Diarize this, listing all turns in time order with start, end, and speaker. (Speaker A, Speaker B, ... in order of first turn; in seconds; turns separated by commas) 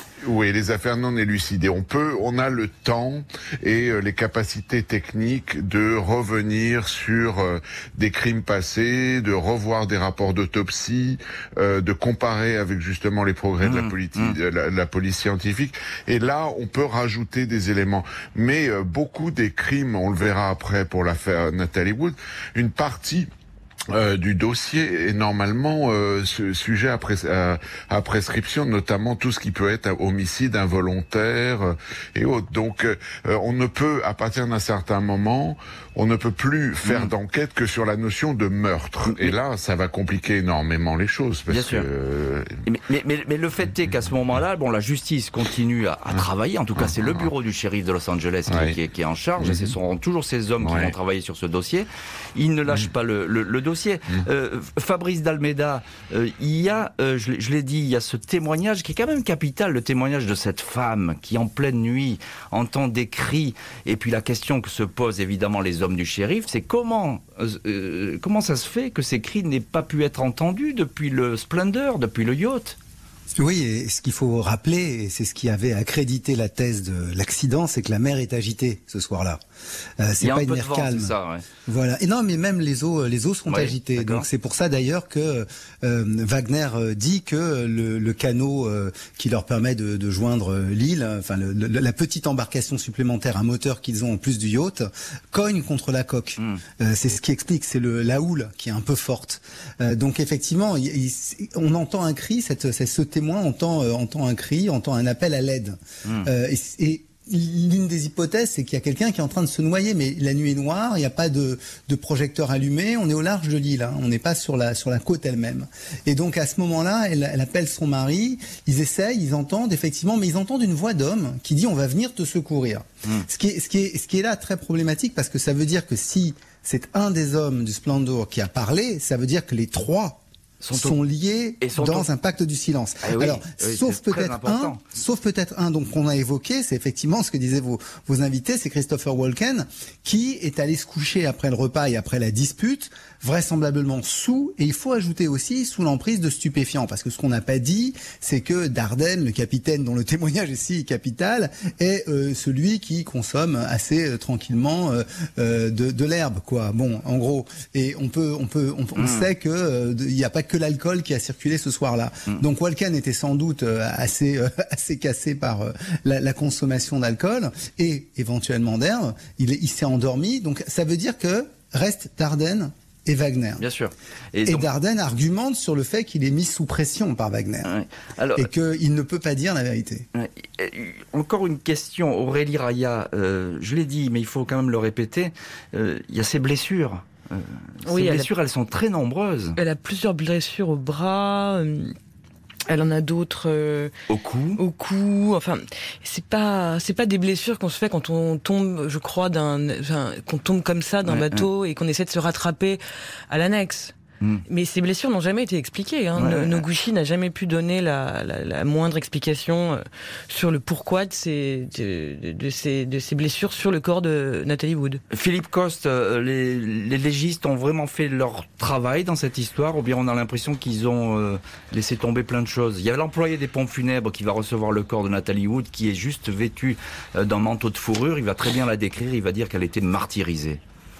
Speaker A: 0.2-23.3, Speaker B: 13.6-14.4, Speaker A: 23.9-42.5, Speaker B: 36.9-37.1, Speaker B: 41.5-41.9, Speaker B: 42.7-72.8, Speaker A: 46.8-47.3, Speaker A: 48.5-48.8, Speaker A: 49.4-49.7, Speaker A: 50.6-50.9, Speaker C: 73.3-79.4, Speaker C: 80.0-81.2, Speaker B: 80.2-81.5, Speaker C: 81.7-130.2, Speaker B: 83.5-84.3, Speaker B: 130.6-131.0, Speaker C: 130.7-173.6, Speaker B: 131.6-132.1, Speaker B: 133.0-134.8, Speaker B: 159.0-159.3, Speaker B: 173.6-174.7, Speaker C: 174.4-177.7, Speaker B: 177.7-178.5, Speaker C: 178.3-180.1, Speaker B: 180.1-189.6, Speaker D: 187.8-188.3, Speaker D: 189.6-191.9, Speaker D: 192.7-193.9, Speaker B: 194.1-194.6, Speaker D: 194.6-203.9, Speaker B: 201.1-201.5, Speaker D: 204.5-215.0, Speaker B: 206.2-206.6, Speaker B: 215.1-230.6